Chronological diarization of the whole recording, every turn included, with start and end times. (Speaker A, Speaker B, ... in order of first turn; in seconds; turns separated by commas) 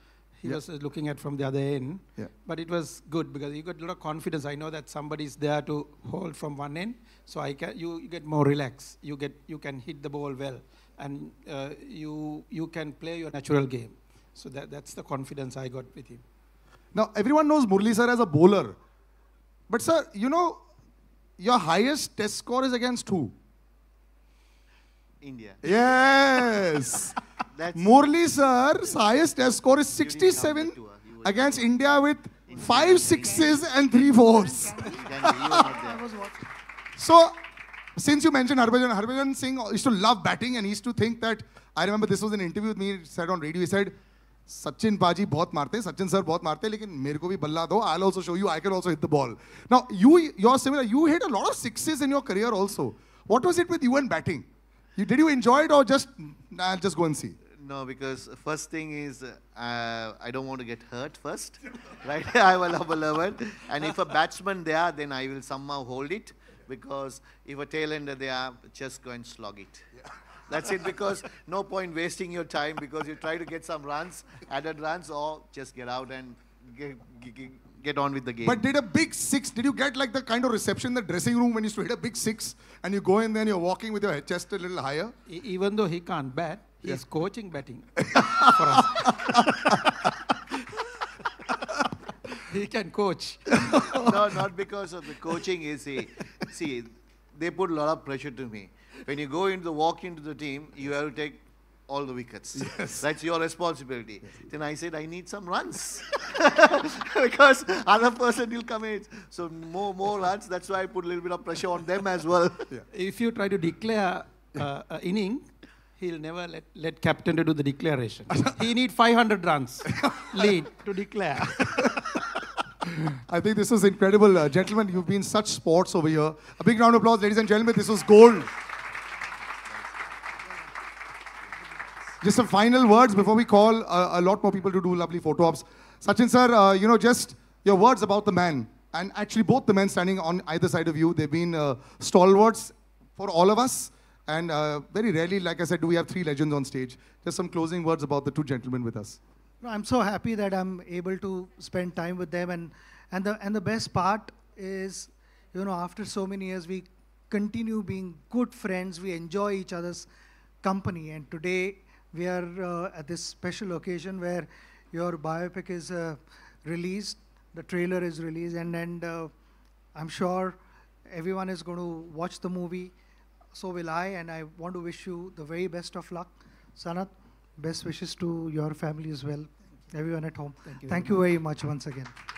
Speaker A: 0.4-16.2, Speaker B: 16.9-18.8, Speaker B: 19.7-20.6, Speaker B: 21.4-23.3, Speaker C: 25.2-26.1, Speaker B: 25.6-27.2, Speaker C: 27.5-28.0, Speaker B: 27.8-35.7, Speaker C: 29.8-34.1, Speaker D: 34.1-36.5, Speaker C: 34.9-36.1, Speaker B: 37.0-37.3, Speaker B: 38.0-44.0, Speaker B: 44.5-57.4, Speaker C: 57.6-69.9, Speaker C: 70.5-78.6, Speaker B: 78.4-85.1, Speaker A: 85.3-90.6, Speaker B: 88.2-88.8, Speaker A: 92.3-94.5, Speaker C: 94.0-112.7, Speaker B: 102.6-103.1, Speaker A: 112.9-122.3, Speaker B: 123.3-128.5, Speaker B: 132.2-149.2, Speaker D: 149.6-160.1, Speaker D: 160.6-169.3, Speaker D: 169.9-172.9, Speaker D: 173.5-182.1, Speaker A: 180.7-181.2